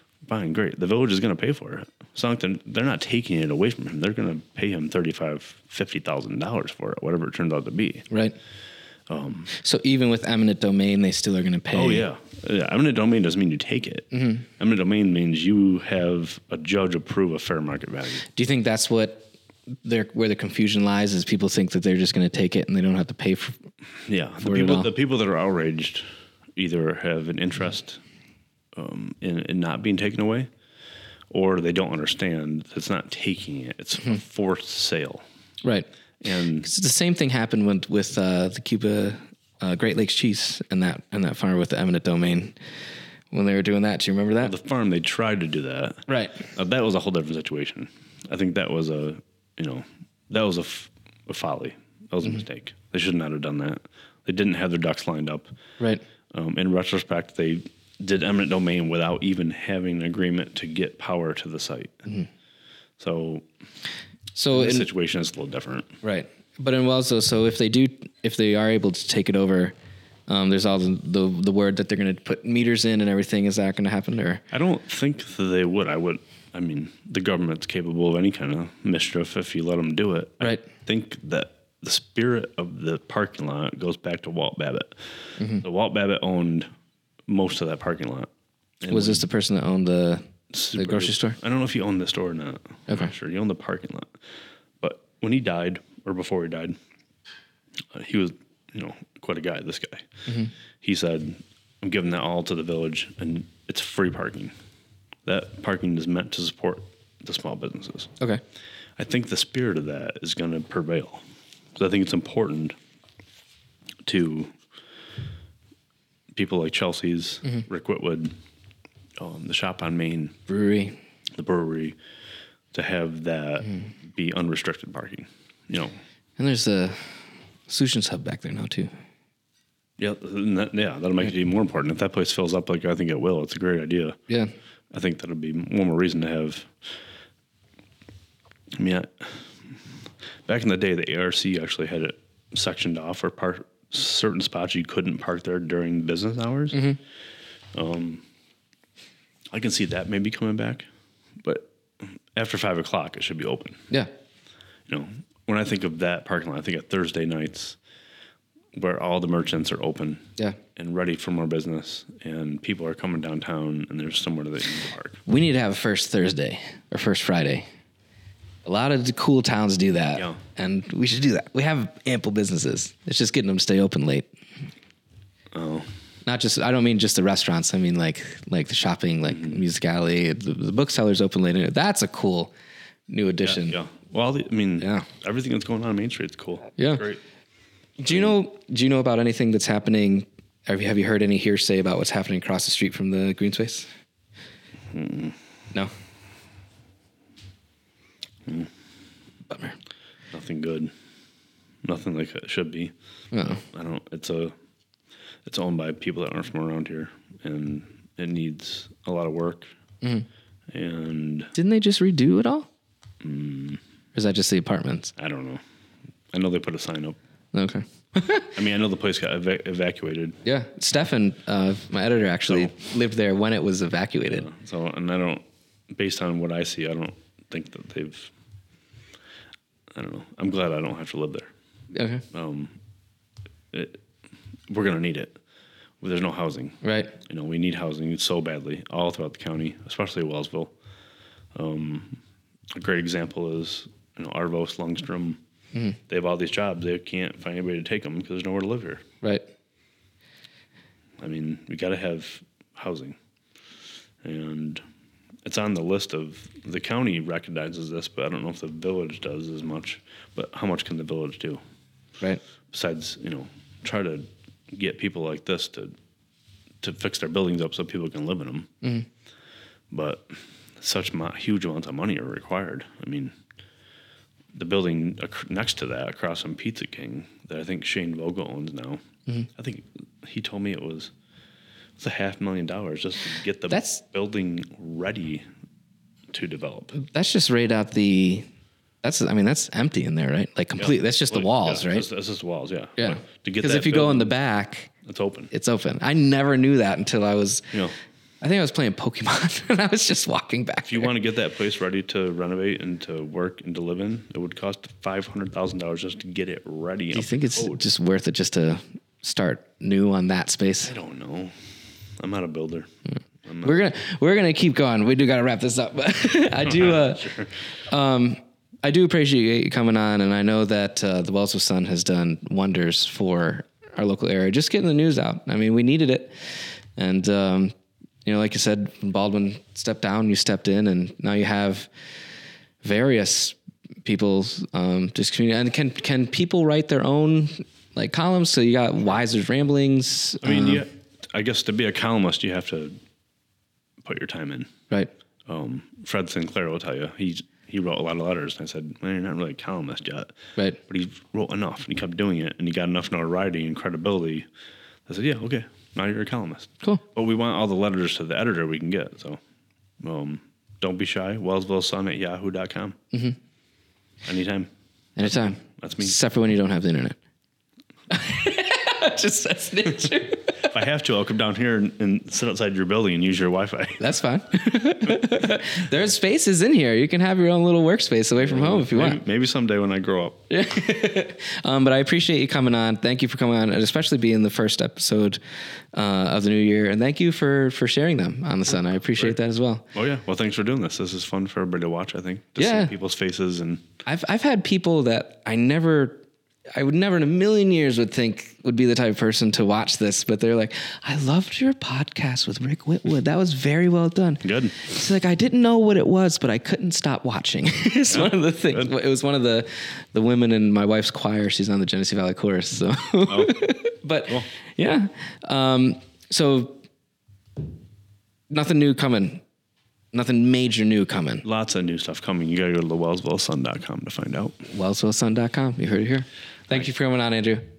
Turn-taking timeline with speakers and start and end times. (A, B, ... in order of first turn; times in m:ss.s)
0:00.2-0:08.0 A
0:08.1-0:08.4 B
0:09.1-0:09.5 A
0:09.5-0:12.1 B
0:11.7-0:18.3 A
0:14.1-0:14.5 B
0:18.4-0:19.3 B
0:19.8-0:23.6 B
0:24.1-0:26.0 A
0:24.4-0:24.9 B
0:26.6-0:28.0 A
0:28.8-0:30.5 A
0:31.3-0:35.2 A
0:36.2-0:36.7 A
0:36.6-0:42.6 B
0:43.3-0:44.5 B
0:44.4-0:55.5 A
0:46.1-0:46.4 B
0:56.3-1:02.1 A
1:03.0-1:03.5 A
1:04.4-1:04.9 B
1:04.5-1:05.9 A
1:06.0-1:09.7 B
1:10.3-1:14.4 B
1:14.5-1:25.1 A
1:25.4-1:25.6 B
1:25.6-1:26.7 A
1:27.3-1:28.3 A
1:28.8-1:29.3 A
1:28.9-1:31.4 B
1:30.5-1:34.2 A
1:34.8-1:36.8 A
1:37.9-1:40.1 A
1:40.3-1:40.5 B
1:40.8-1:44.5 A
1:45.2-1:48.1 A
1:49.0-1:51.2 A
1:51.8-1:52.8 A
1:54.0-1:54.6 A
1:56.3-1:58.4 A
1:59.2-2:00.4 A
2:00.5-2:01.0 B
2:01.4-2:02.0 A
2:02.7-2:06.0 A
2:06.4-2:07.1 B
2:07.7-2:08.9 B
2:10.0-2:14.2 A
2:14.9-2:16.8 A
2:18.7-2:19.8 A
2:20.5-2:26.8 A
2:26.7-2:27.0 B
2:27.7-2:28.2 A
2:29.5-2:30.9 A
2:31.4-2:33.8 A
2:34.9-2:37.8 A
2:38.8-2:40.2 A
2:40.8-2:45.2 A
2:45.3-2:47.7 B
2:48.6-2:54.3 B
2:55.5-2:55.9 A
2:56.3-3:02.5 B
2:59.3-2:59.6 A
3:03.1-3:03.8 B
3:03.4-3:07.2 A
3:04.8-3:05.1 B
3:06.8-3:07.1 B
3:08.0-3:13.9 B
3:08.1-3:08.4 A
3:14.9-3:15.4 A
3:18.5-3:18.7 A
3:19.5-3:19.8 B
3:20.3-3:20.9 A
3:21.8-3:24.5 A
3:23.3-3:23.6 B
3:25.4-3:29.7 A
3:30.7-3:31.5 A
3:31.6-3:32.7 B
3:33.2-3:33.8 A
3:34.2-3:35.1 B
3:35.2-3:35.6 A
3:36.3-3:37.2 A
3:37.5-3:38.6 B
3:38.6-3:40.4 A
3:40.4-3:44.5 B
3:44.3-3:48.3 A
3:49.9-3:51.5 A
3:51.9-3:52.2 B
3:52.3-3:52.7 A
3:53.7-3:54.0 A
3:54.7-3:55.4 A
3:56.0-4:00.7 A
3:56.8-3:57.1 B
4:01.6-4:02.2 A
4:02.7-4:05.4 A
4:06.1-4:09.0 A
4:11.2-4:13.2 A
4:14.2-4:14.8 A
4:15.4-4:21.6 A
4:22.7-4:26.0 A
4:26.8-4:28.7 A
4:29.9-4:33.4 A
4:34.5-4:39.0 A
4:39.6-4:41.1 A
4:42.0-4:45.4 A
4:43.7-4:44.0 B
4:46.3-4:46.9 A
4:46.9-4:48.5 B
4:49.0-4:52.1 B
4:50.8-4:54.3 A
4:53.0-4:54.9 B
4:55.0-4:55.5 A
4:55.5-4:57.7 B
4:58.4-5:01.1 B
5:00.8-5:07.8 A
5:07.1-5:10.9 B
5:10.8-5:11.6 A
5:12.2-5:12.9 A
5:13.4-5:13.8 A
5:13.6-5:17.4 B
5:16.6-5:17.6 A
5:17.9-5:26.3 B
5:27.0-5:27.7 B
5:28.2-5:31.9 B
5:32.8-5:40.8 B
5:40.4-5:43.0 A
5:44.0-5:44.7 A
5:45.5-5:50.4 A
5:50.9-5:54.5 A
5:55.1-5:59.4 A
6:00.0-6:03.0 A
6:03.1-6:03.4 B
6:04.2-6:04.7 A
6:05.2-6:07.2 B
6:05.2-6:06.2 A
6:08.1-6:10.8 B
6:10.6-6:14.0 A
6:14.0-6:19.2 B
6:18.4-6:20.4 A
6:20.5-6:25.4 B
6:25.9-6:29.9 B
6:29.9-6:33.8 A
6:32.6-6:32.9 B
6:34.1-6:36.2 B
6:36.8-6:56.8 B
6:44.4-6:44.8 A
6:48.1-6:48.9 A
6:53.3-6:53.7 A
6:58.5-6:59.4 B
7:00.1-7:01.4 B
7:01.4-7:04.6 A
7:04.7-7:07.6 B